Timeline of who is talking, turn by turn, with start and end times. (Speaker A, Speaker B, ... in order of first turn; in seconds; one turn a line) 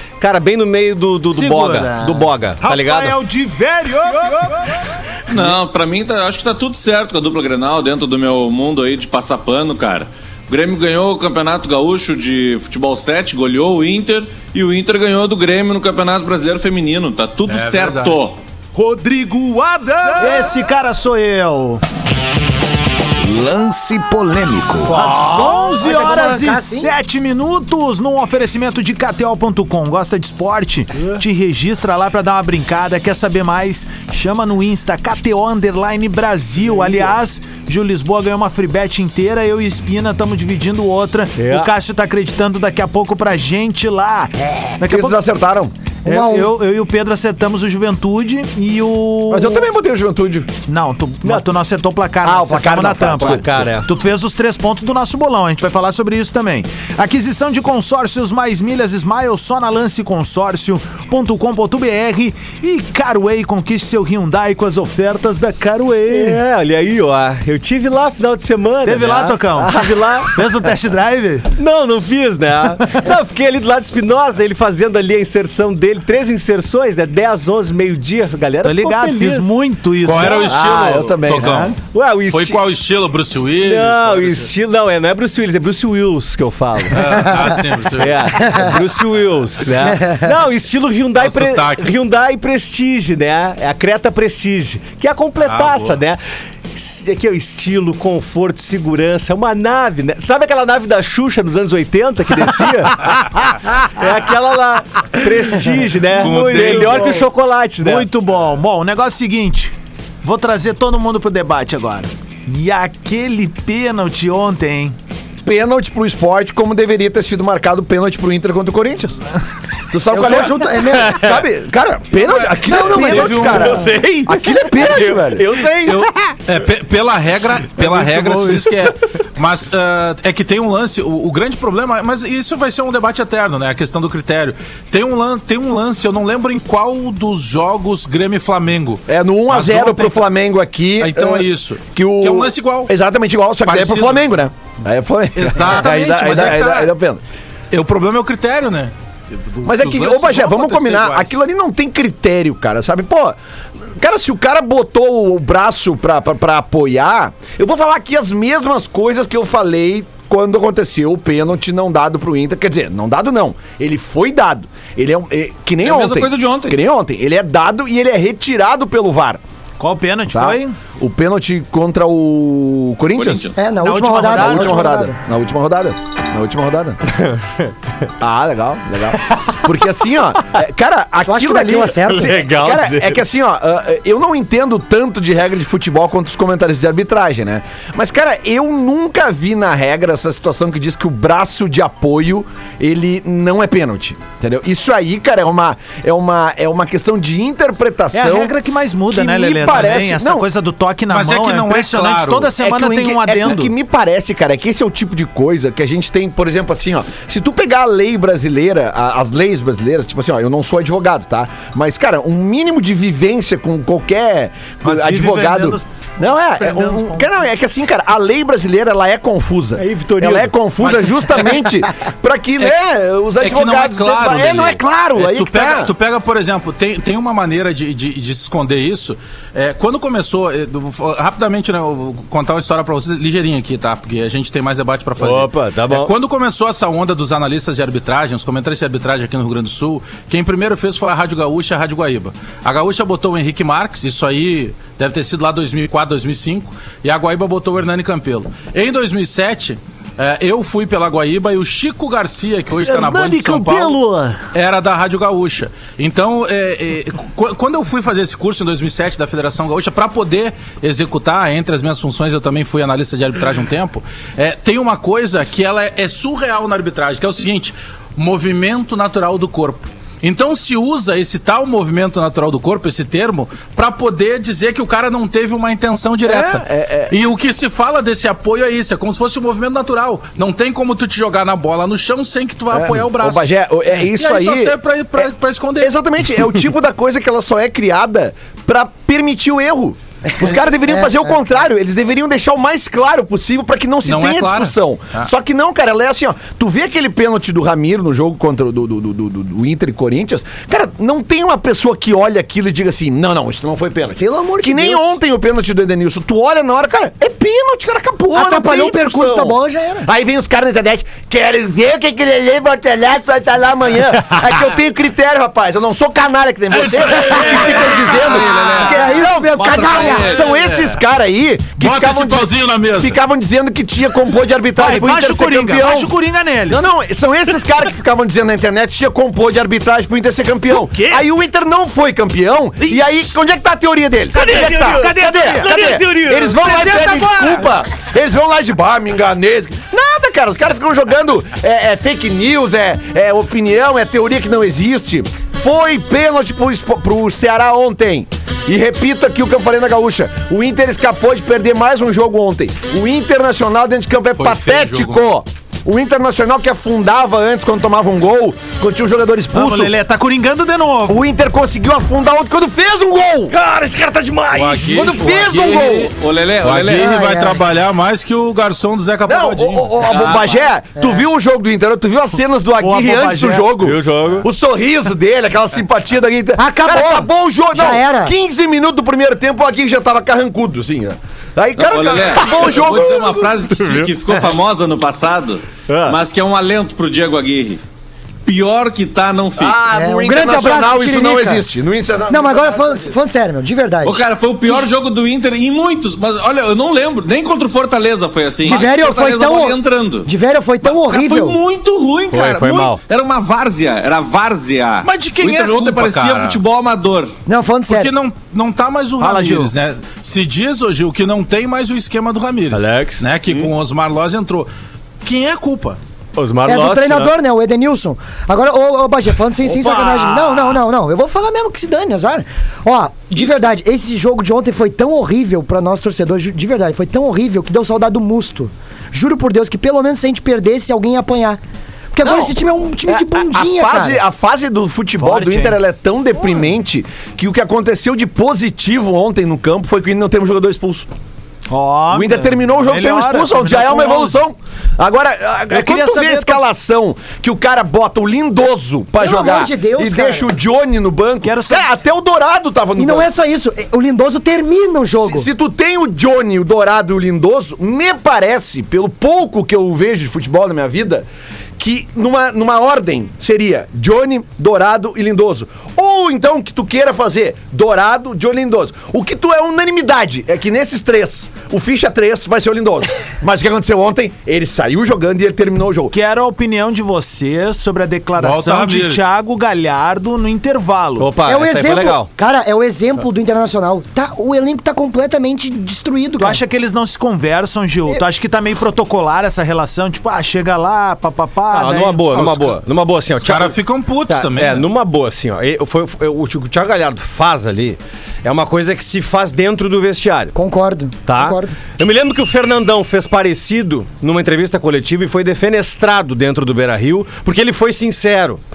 Speaker A: 0.2-3.2
Speaker B: 1.3-4.8
Speaker C: 5.3-18.4
Speaker D: 17.5-18.2
Speaker B: 18.7-21.8
Speaker E: 23.2-25.2
Speaker B: 24.9-45.2
Speaker F: 25.2-26.9
Speaker A: 41.4-41.7
Speaker E: 44.8-45.7
Speaker B: 46.0-49.6
Speaker F: 46.1-46.5
Speaker E: 49.3-50.6
Speaker B: 50.6-66.4
Speaker E: 52.2-53.6
Speaker A: 53.1-53.9
Speaker A: 66.1-70.4
Speaker B: 68.8-71.5
Speaker A: 71.6-79.6
Speaker B: 78.6-80.5
Speaker D: 80.0-81.8
Speaker E: 80.2-81.8
Speaker A: 81.9-82.6
Speaker D: 82.3-84.5
Speaker A: 83.6-87.4
Speaker D: 86.9-88.8
Speaker A: 88.0-96.2
Speaker F: 89.8-90.3
Speaker D: 91.2-92.0
Speaker D: 95.4-96.0
Speaker A: 96.7-108.1
Speaker D: 106.1-107.2
Speaker B: 106.2-107.3
Speaker B: 107.8-115.0
Speaker E: 115.5-119.2
Speaker E: 119.9-125.5
Speaker F: 120.1-121.4
Speaker F: 122.2-123.9
Speaker A: 123.0-126.3
Speaker D: 125.8-140.3
Speaker A: 127.8-128.8
Speaker E: 139.1-147.2
Speaker D: 141.0-142.9
Speaker D: 143.7-144.3
Speaker D: 145.3-146.9
Speaker D: 147.7-151.4
Speaker E: 149.6-153.4
Speaker E: 153.9-169.4
Speaker C: 165.8-166.8
Speaker B: 169.8-170.8
Speaker E: 170.3-173.5
Speaker C: 173.2-173.6
Speaker F: 173.6-175.2
Speaker B: 173.7-174.9
Speaker E: 174.3-177.0
Speaker E: 178.2-198.5
Speaker F: 181.3-182.4
Speaker A: 182.1-183.2
Speaker B: 198.1-203.7
Speaker E: 199.1-200.5
Speaker D: 201.1-202.5
Speaker E: 202.6-225.9
Speaker B: 214.8-217.3
Speaker A: 219.8-221.3
Speaker D: 223.4-254.0
Speaker A: 235.2-236.1
Speaker A: 252.8-254.4
Speaker D: 254.5-286.0
Speaker E: 276.2-277.1
Speaker E: 282.7-285.3
Speaker E: 285.8-326.1
Speaker D: 294.1-295.3
Speaker F: 304.2-305.0
Speaker F: 308.4-310.1
Speaker D: 316.7-318.7
Speaker C: 318.2-320.5
Speaker F: 318.7-320.4
Speaker D: 321.8-323.2
Speaker B: 324.8-326.8
Speaker E: 326.7-359.9
Speaker B: 330.9-331.2
Speaker A: 334.4-336.9
Speaker B: 334.4-337.7
Speaker D: 354.4-355.2
Speaker B: 359.5-361.2
Speaker E: 361.1-363.5
Speaker A: 363.5-365.1
Speaker D: 364.5-370.0
Speaker E: 364.9-366.1
Speaker C: 365.7-367.2
Speaker F: 367.0-367.6
Speaker E: 369.3-383.5
Speaker C: 370.1-370.6
Speaker F: 371.0-371.2
Speaker B: 372.8-373.7
Speaker A: 373.8-374.5
Speaker F: 376.6-378.3
Speaker C: 381.8-387.8
Speaker A: 383.7-384.4
Speaker A: 385.9-386.2
Speaker C: 388.4-389.8
Speaker E: 389.6-393.2
Speaker F: 389.9-391.7
Speaker F: 392.3-394.2
Speaker C: 394.0-400.3
Speaker F: 398.6-401.6
Speaker C: 400.8-407.3
Speaker A: 402.3-403.0
Speaker D: 405.0-406.6
Speaker F: 407.5-408.1
Speaker D: 407.9-414.7
Speaker B: 409.2-409.7
Speaker A: 412.7-413.2
Speaker D: 415.2-416.0
Speaker A: 416.4-417.3
Speaker F: 416.7-431.6
Speaker B: 419.9-420.6
Speaker F: 432.1-434.2
Speaker E: 432.2-441.1
Speaker B: 435.2-435.7
Speaker B: 441.7-444.4
Speaker E: 442.1-453.3
Speaker B: 445.7-446.6
Speaker F: 449.2-450.5
Speaker B: 451.4-451.9
Speaker F: 453.0-455.5
Speaker E: 455.1-461.3
Speaker E: 461.8-476.1
Speaker B: 476.1-481.4
Speaker D: 478.4-479.2
Speaker A: 481.2-482.3
Speaker F: 481.4-486.6
Speaker B: 486.4-492.4
Speaker A: 491.7-500.5
Speaker D: 492.3-492.8
Speaker D: 493.4-494.9
Speaker F: 500.5-501.8
Speaker A: 501.3-508.6